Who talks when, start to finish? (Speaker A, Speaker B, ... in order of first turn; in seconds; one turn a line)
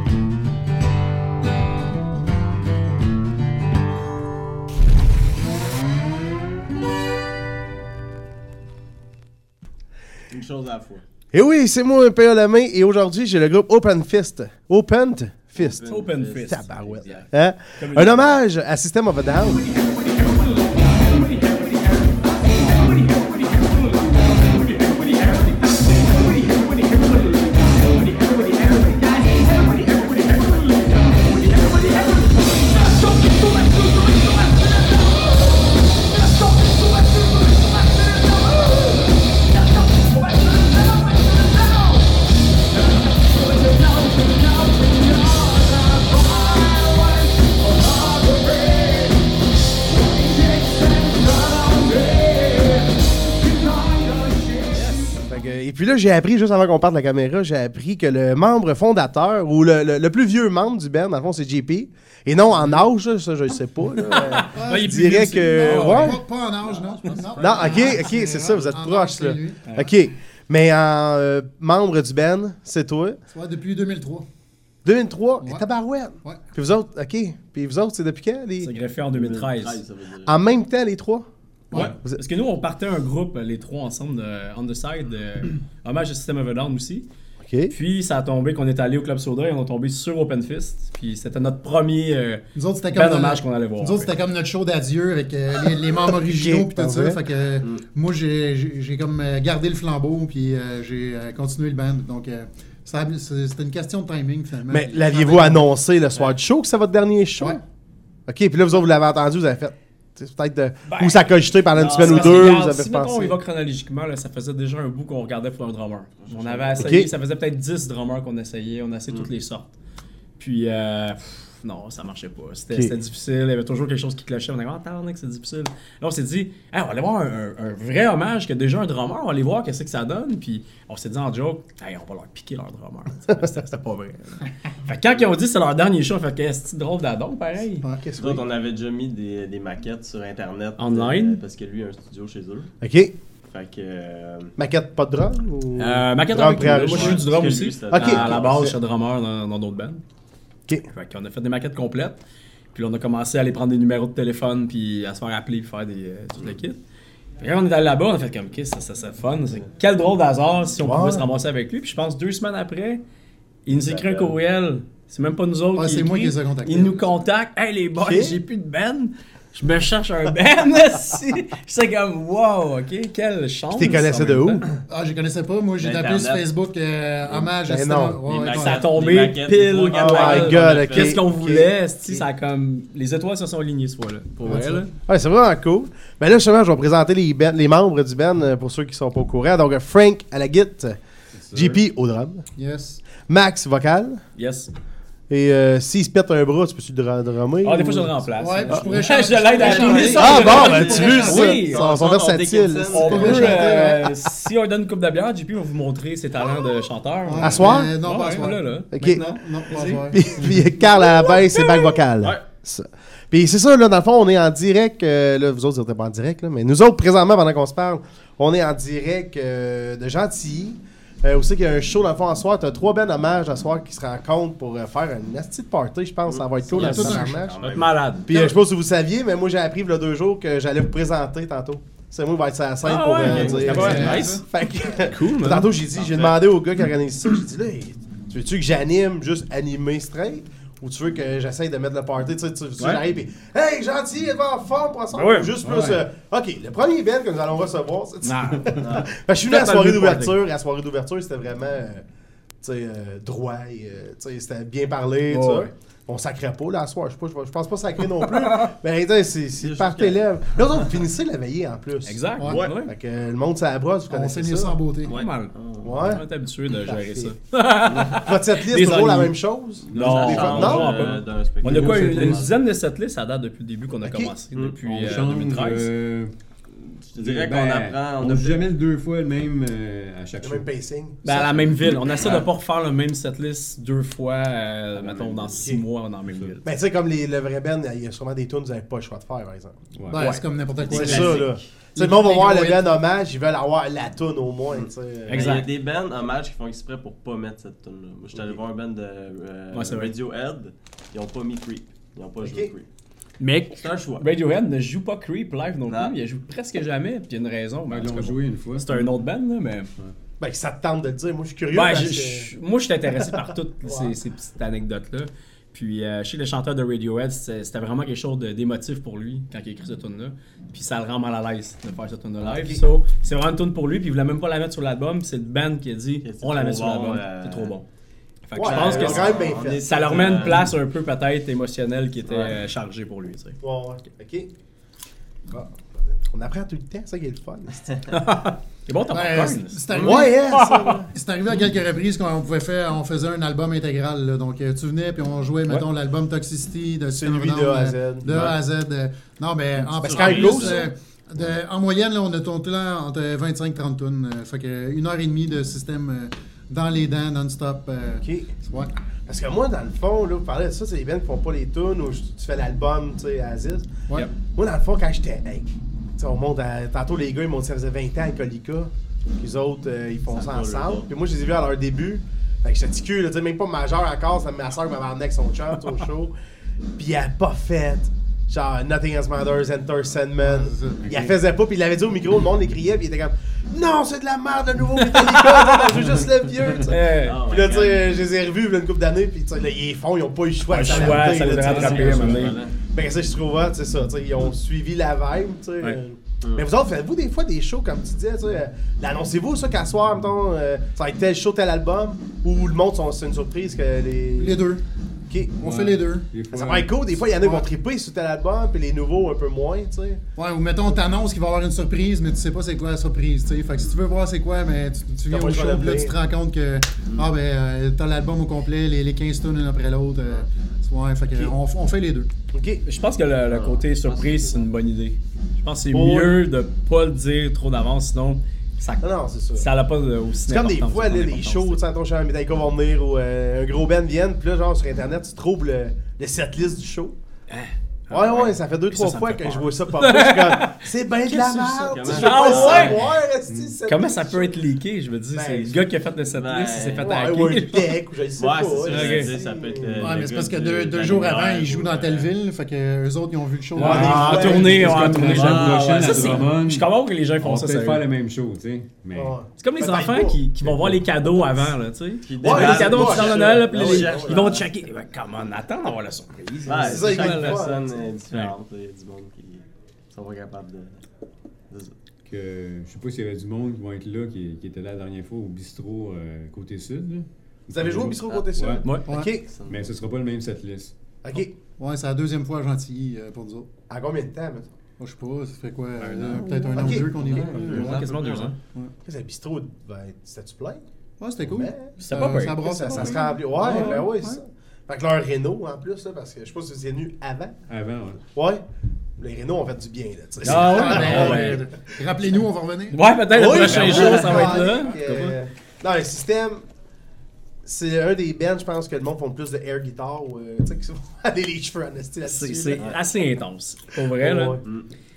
Speaker A: 10.3-11.0
Speaker B: 11.3-15.8
Speaker A: 15.6-17.2
Speaker C: 15.9-17.3
Speaker B: 16.4-19.6
Speaker C: 17.8-18.4
Speaker C: 19.5-49.3
Speaker C: 49.9-55.2
Speaker B: 55.0-66.2
Speaker C: 64.1-66.2
Speaker D: 64.4-69.8
Speaker A: 66.7-67.8
Speaker B: 67.4-73.2
Speaker D: 73.3-74.2
Speaker B: 74.8-78.7
Speaker C: 78.6-79.8
Speaker A: 79.1-80.3
Speaker B: 80.2-82.2
Speaker C: 82.2-87.1
Speaker B: 87.4-87.8
Speaker C: 87.7-94.1
Speaker D: 92.5-105.6
Speaker B: 96.1-97.2
Speaker B: 104.7-107.6
Speaker B: 108.3-113.4
Speaker C: 110.9-119.7
Speaker A: 111.7-112.5
Speaker A: 116.2-117.0
Speaker B: 116.8-117.1
Speaker C: 120.4-137.8
Speaker B: 137.9-138.4
Speaker A: 138.2-142.7
Speaker C: 140.8-141.4
Speaker B: 142.8-143.1
Speaker A: 143.5-144.6
Speaker B: 144.6-147.3
Speaker C: 145.8-150.0
Speaker A: 146.5-148.7
Speaker B: 147.9-148.8
Speaker C: 150.9-152.2
Speaker C: 152.7-156.8
Speaker C: 157.4-163.0
Speaker B: 160.8-161.3
Speaker C: 163.7-174.7
Speaker A: 163.7-164.4
Speaker D: 165.8-167.1
Speaker B: 168.0-168.4
Speaker B: 173.7-174.8
Speaker D: 174.9-178.9
Speaker A: 175.8-176.5
Speaker B: 177.6-178.2
Speaker A: 178.2-181.2
Speaker C: 178.5-184.9
Speaker B: 179.9-182.2
Speaker D: 184.4-184.8
Speaker B: 185.1-191.0
Speaker E: 191.4-191.8
Speaker B: 191.5-192.4
Speaker D: 192.6-193.0
Speaker B: 193.2-194.2
Speaker C: 194.3-194.7
Speaker B: 195.3-198.1
Speaker C: 197.6-201.9
Speaker D: 198.4-201.6
Speaker A: 199.4-203.5
Speaker B: 200.1-203.9
Speaker C: 202.9-209.1
Speaker D: 203.0-204.1
Speaker D: 207.2-211.0
Speaker B: 207.4-207.9
Speaker B: 208.9-209.2
Speaker C: 209.7-210.1
Speaker B: 210.1-227.6
Speaker A: 226.3-227.9
Speaker D: 226.7-227.4
Speaker C: 226.8-228.5
Speaker B: 228.2-252.0
Speaker C: 232.8-235.7
Speaker A: 233.2-234.4
Speaker D: 233.7-234.4
Speaker A: 235.9-236.4
Speaker C: 245.1-245.5
Speaker E: 245.6-246.0
Speaker C: 248.2-250.4
Speaker A: 248.8-249.1
Speaker B: 252.6-262.2
Speaker C: 255.3-255.7
Speaker A: 259.6-260.2
Speaker C: 262.1-262.9
Speaker D: 262.4-262.6
Speaker A: 262.5-262.9
Speaker B: 262.8-264.8
Speaker D: 264.1-265.1
Speaker A: 265.1-266.1
Speaker C: 265.1-269.4
Speaker B: 265.8-266.2
Speaker B: 266.8-267.3
Speaker A: 267.9-268.2
Speaker B: 268.1-271.1
Speaker E: 269.9-270.8
Speaker C: 269.9-275.9
Speaker A: 269.9-272.5
Speaker E: 271.6-272.4
Speaker B: 274.0-274.3
Speaker A: 274.5-275.2
Speaker E: 274.8-276.3
Speaker A: 276.7-278.7
Speaker E: 277.1-280.7
Speaker B: 280.4-282.1
Speaker C: 281.2-286.6
Speaker E: 281.8-282.4
Speaker E: 285.0-285.6
Speaker B: 286.6-289.8
Speaker E: 289.9-290.3
Speaker D: 290.1-293.0
Speaker A: 290.8-291.6
Speaker B: 290.9-295.4
Speaker A: 294.7-302.9
Speaker C: 295.3-295.7
Speaker C: 299.7-300.1
Speaker B: 302.4-302.7
Speaker C: 303.4-309.9
Speaker A: 303.8-304.2
Speaker A: 305.9-306.1
Speaker E: 307.9-308.9
Speaker B: 310.4-312.5
Speaker C: 311.7-327.9
Speaker B: 313.2-314.1
Speaker B: 322.4-322.8
Speaker A: 326.2-327.8
Speaker C: 328.4-333.6
Speaker B: 328.6-330.4
Speaker A: 328.6-330.7
Speaker A: 332.2-332.6
Speaker B: 333.6-334.5
Speaker B: 335.5-338.0
Speaker C: 338.1-341.0
Speaker D: 339.1-340.4
Speaker B: 339.9-341.1
Speaker D: 341.1-358.9
Speaker B: 347.1-348.6
Speaker B: 350.0-350.8
Speaker C: 350.1-350.8
Speaker B: 358.2-358.5
Speaker B: 359.2-376.3
Speaker A: 370.3-371.1
Speaker B: 377.0-404.6
Speaker D: 380.4-381.1
Speaker E: 381.0-381.4
Speaker C: 385.0-385.9
Speaker C: 386.9-387.4
Speaker A: 387.2-388.1
Speaker A: 390.7-392.8
Speaker C: 390.8-392.6
Speaker A: 396.4-396.7
Speaker D: 404.4-404.8
Speaker B: 405.3-405.5
Speaker D: 405.6-406.3
Speaker E: 405.6-407.1
Speaker B: 406.5-410.2
Speaker D: 407.4-407.7
Speaker D: 410.4-422.3
Speaker B: 415.3-416.1
Speaker B: 422.5-422.8
Speaker C: 422.8-429.0
Speaker A: 423.5-424.6
Speaker B: 425.9-426.4
Speaker B: 429.0-429.7
Speaker C: 429.6-431.8
Speaker B: 430.5-437.1
Speaker C: 437.5-443.0
Speaker B: 438.1-444.6
Speaker A: 441.9-443.1
Speaker E: 443.5-443.8
Speaker C: 443.9-448.0
Speaker B: 445.3-445.8
Speaker A: 446.3-447.2
Speaker B: 446.9-450.1
Speaker A: 448.4-452.3
Speaker C: 448.8-449.4
Speaker D: 450.0-455.7
Speaker C: 453.8-458.0
Speaker E: 453.8-459.3
Speaker B: 453.8-454.9
Speaker A: 455.1-456.5
Speaker B: 459.1-460.4
Speaker C: 459.6-467.6
Speaker E: 460.6-461.0
Speaker B: 461.3-461.6
Speaker A: 462.2-464.6
Speaker B: 462.4-464.7
Speaker E: 466.6-466.9
Speaker A: 466.6-471.0
Speaker B: 466.8-468.0
Speaker E: 472.2-478.9
Speaker B: 477.7-479.5
Speaker A: 479.4-479.9
Speaker E: 479.7-480.9
Speaker B: 481.2-481.6
Speaker D: 481.8-483.7
Speaker B: 483.9-484.7
Speaker D: 485.0-488.1
Speaker E: 486.0-486.6
Speaker C: 486.4-486.7
Speaker B: 486.7-487.1
Speaker A: 487.0-488.6
Speaker E: 487.3-487.9
Speaker C: 487.6-488.6
Speaker B: 489.0-490.8
Speaker D: 491.2-494.4
Speaker B: 491.5-491.9
Speaker C: 492.0-494.1
Speaker B: 492.6-497.6
Speaker E: 497.7-498.2
Speaker B: 498.3-498.6
Speaker B: 499.2-501.9
Speaker C: 500.4-501.6
Speaker D: 500.5-503.0
Speaker C: 502.9-505.3
Speaker B: 503.3-506.6
Speaker A: 503.4-504.6
Speaker B: 507.6-512.9
Speaker C: 512.2-514.6
Speaker B: 514.2-514.6